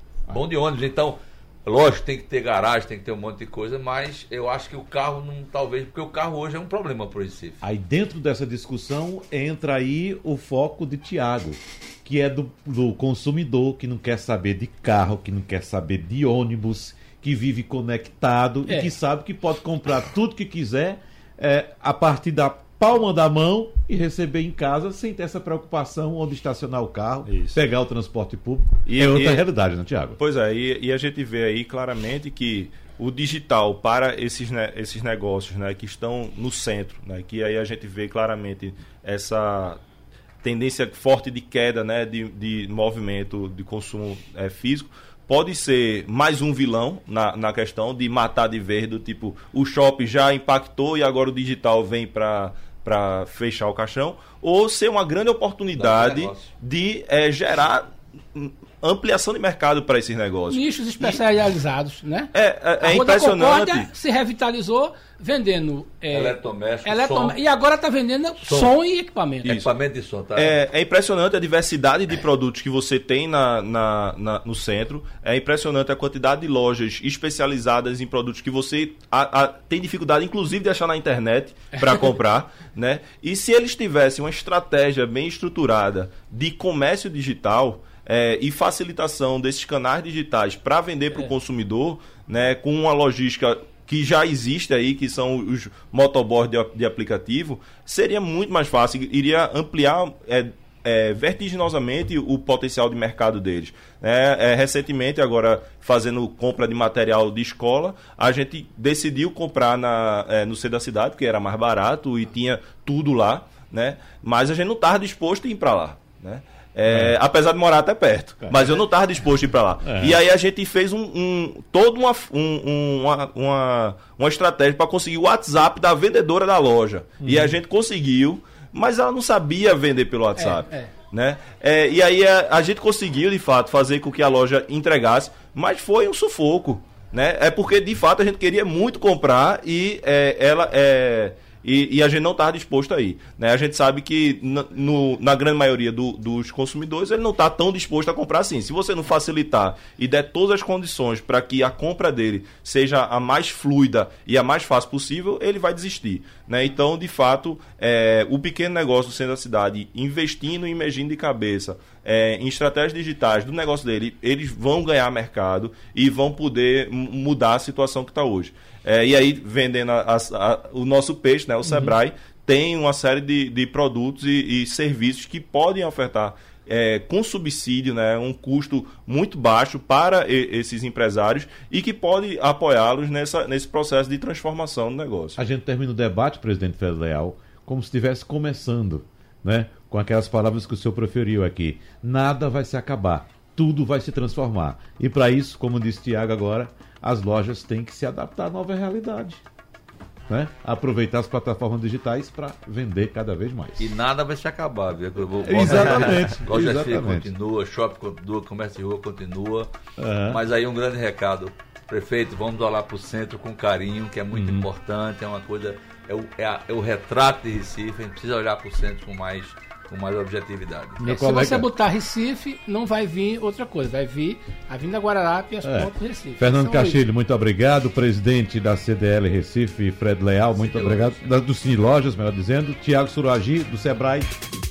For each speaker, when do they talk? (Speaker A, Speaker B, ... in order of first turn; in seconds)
Speaker A: 0.3-7.6, 55.8-56.5, 66.1-67.3, 68.4-68.7, 69.4-70.5, 203.8-209.7, 210.3-221.0
Speaker B: 7.6-30.2, 116.9-117.2, 118.4-118.8, 119.8-120.2, 127.2-127.6, 171.6-171.9, 185.4-199.4, 200.3-203.9, 205.4-207.3, 210.0-210.4, 214.3-214.7, 221.0-221.7, 225.6-234.3
Speaker C: 18.7-18.9, 60.5-69.5, 130.4-130.9, 221.0-227.0, 230.6-231.2
Speaker D: 27.3-27.6, 28.9-29.4, 30.2-39.8, 40.4-61.2, 62.3-63.9, 70.3-185.4